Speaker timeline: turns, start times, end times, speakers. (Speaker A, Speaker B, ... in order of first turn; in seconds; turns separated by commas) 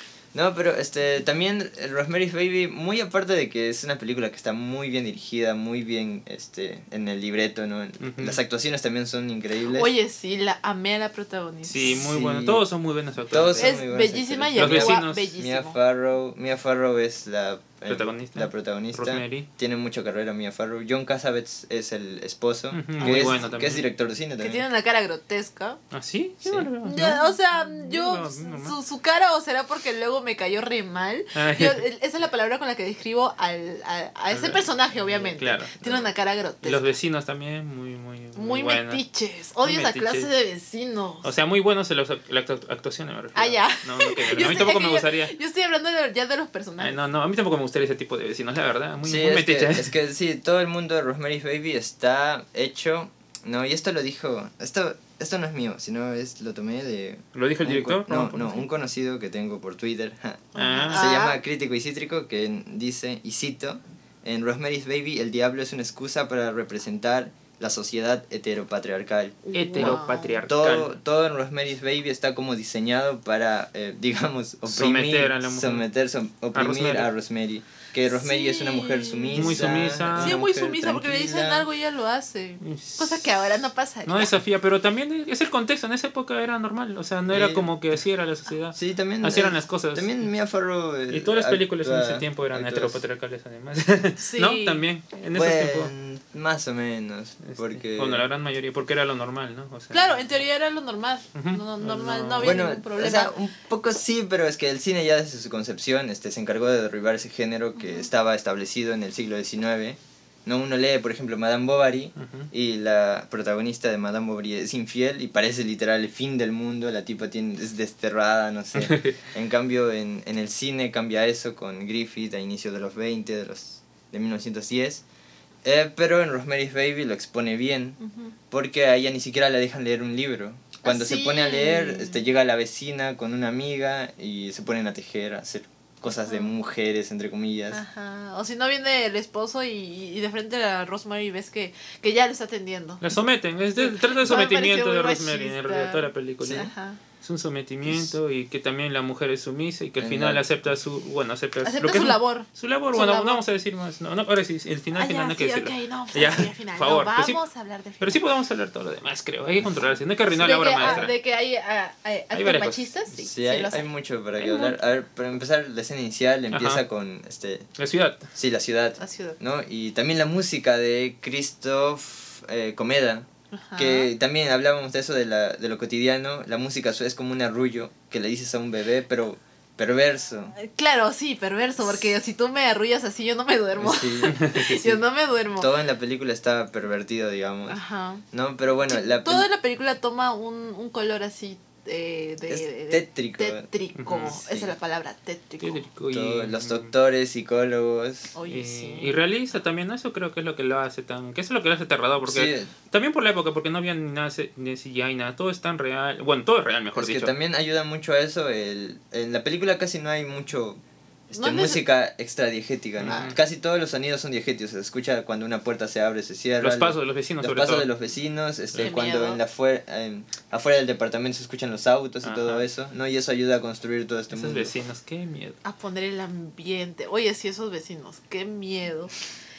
Speaker A: 0.3-9.9, Speaker B: 8.0-8.4, Speaker C: 9.7-12.0, Speaker B: 11.7-13.8, Speaker A: 11.8-12.7, Speaker A: 13.3-24.6, Speaker C: 13.6-15.8, Speaker B: 14.6-15.3, Speaker B: 17.9-19.5, Speaker B: 22.7-23.9, Speaker C: 23.0-23.4, Speaker C: 24.4-25.8, Speaker B: 25.9-28.8, Speaker C: 26.9-36.9, Speaker B: 31.4-31.8, Speaker B: 34.3-35.7, Speaker A: 35.8-36.1, Speaker B: 36.6-39.0, Speaker C: 38.4-41.3, Speaker B: 39.6-40.3, Speaker B: 41.2-45.3, Speaker C: 43.4-47.0, Speaker B: 46.8-49.9, Speaker A: 49.0-81.7, Speaker B: 57.4-58.7, Speaker C: 60.5-61.4, Speaker B: 60.5-61.1, Speaker C: 69.5-70.4, Speaker B: 69.5-71.0, Speaker B: 74.7-75.9, Speaker B: 76.5-77.1, Speaker C: 78.1-84.4, Speaker B: 79.3-80.4, Speaker B: 82.6-90.1, Speaker A: 87.3-87.7, Speaker A: 88.7-93.0, Speaker B: 91.1-95.9, Speaker C: 94.2-94.8, Speaker A: 95.3-98.2, Speaker B: 97.4-100.2, Speaker C: 99.9-103.3, Speaker B: 101.3-102.7, Speaker A: 102.4-125.0, Speaker C: 107.8-108.1, Speaker B: 112.2-112.5, Speaker B: 118.8-119.2, Speaker A: 125.6-128.0, Speaker C: 128.0-128.3, Speaker A: 128.5-137.8, Speaker C: 130.8-132.2, Speaker C: 136.2-136.5, Speaker C: 137.7-143.2, Speaker B: 143.0-157.4, Speaker C: 143.8-147.0, Speaker A: 146.4-146.7, Speaker A: 147.8-148.2, Speaker A: 150.0-150.5, Speaker C: 151.6-153.4, Speaker C: 154.9-158.2, Speaker B: 158.0-161.2, Speaker A: 159.6-159.9, Speaker C: 160.3-163.9, Speaker B: 162.3-162.9, Speaker A: 163.2-167.7, Speaker B: 164.4-164.8, Speaker B: 166.5-166.8, Speaker B: 167.8-168.3, Speaker A: 168.3-180.6, Speaker C: 169.0-169.4, Speaker C: 173.5-174.1, Speaker C: 180.6-185.7, Speaker A: 183.8-185.0, Speaker B: 184.3-184.8, Speaker A: 185.6-187.8, Speaker C: 187.7-188.2, Speaker A: 188.3-189.5, Speaker C: 188.9-195.8, Speaker A: 192.5-193.7, Speaker B: 194.0-194.4, Speaker A: 194.3-194.7, Speaker B: 195.6-196.9, Speaker A: 196.1-198.3, Speaker C: 198.3-199.2, Speaker B: 198.5-207.3, Speaker A: 202.2-202.7, Speaker A: 206.9-224.7, Speaker C: 211.3-211.8, Speaker B: 213.0-213.4, Speaker B: 216.6-217.9, Speaker C: 218.8-219.4, Speaker B: 222.2-222.7, Speaker B: 224.3-225.6, Speaker C: 225.6-229.1